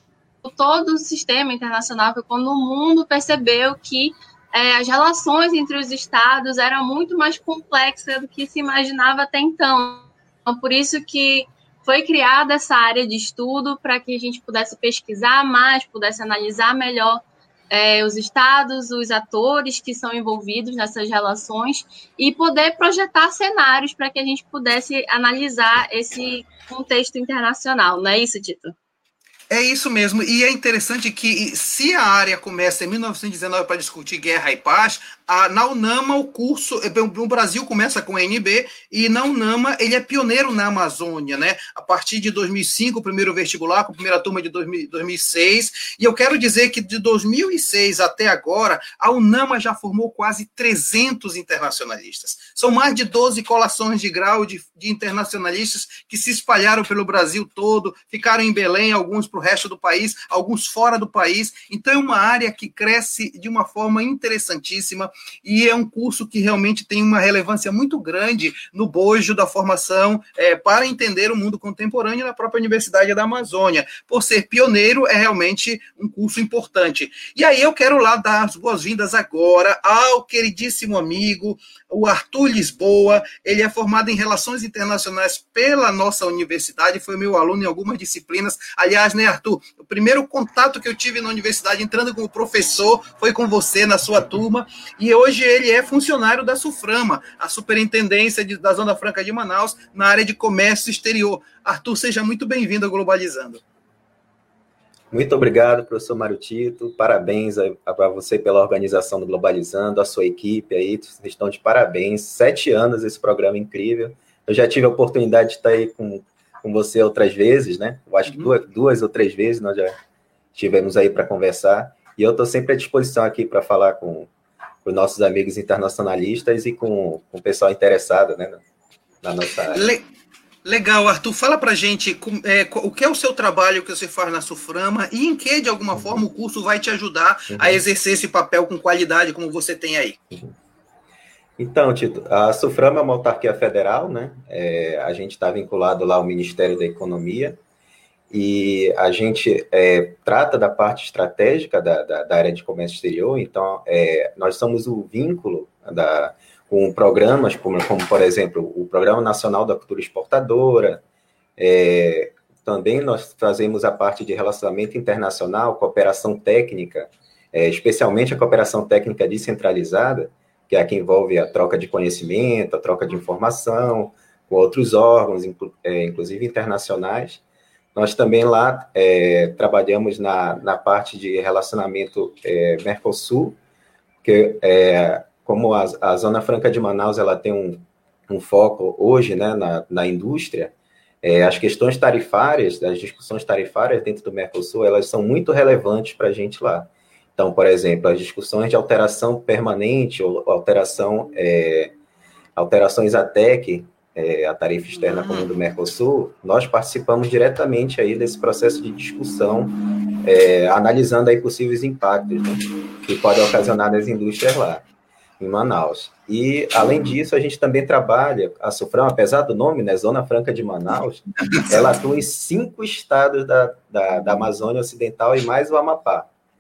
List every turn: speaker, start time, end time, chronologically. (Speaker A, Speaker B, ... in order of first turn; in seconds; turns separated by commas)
Speaker A: 0.4-28.8, Speaker B: 29.5-103.6, Speaker C: 105.1-120.0, Speaker B: 118.2-118.5, Speaker C: 120.5-124.3, Speaker C: 124.8-128.6, Speaker C: 129.2-129.9, Speaker B: 129.7-130.0, Speaker B: 130.7-140.2, Speaker C: 135.9-136.2, Speaker C: 137.5-137.8, Speaker C: 141.6-147.6, Speaker C: 148.3-161.0, Speaker C: 161.6-177.4, Speaker C: 177.9-183.6, Speaker C: 184.2-201.9, Speaker C: 202.6-214.8, Speaker B: 204.9-205.5, Speaker C: 215.4-226.3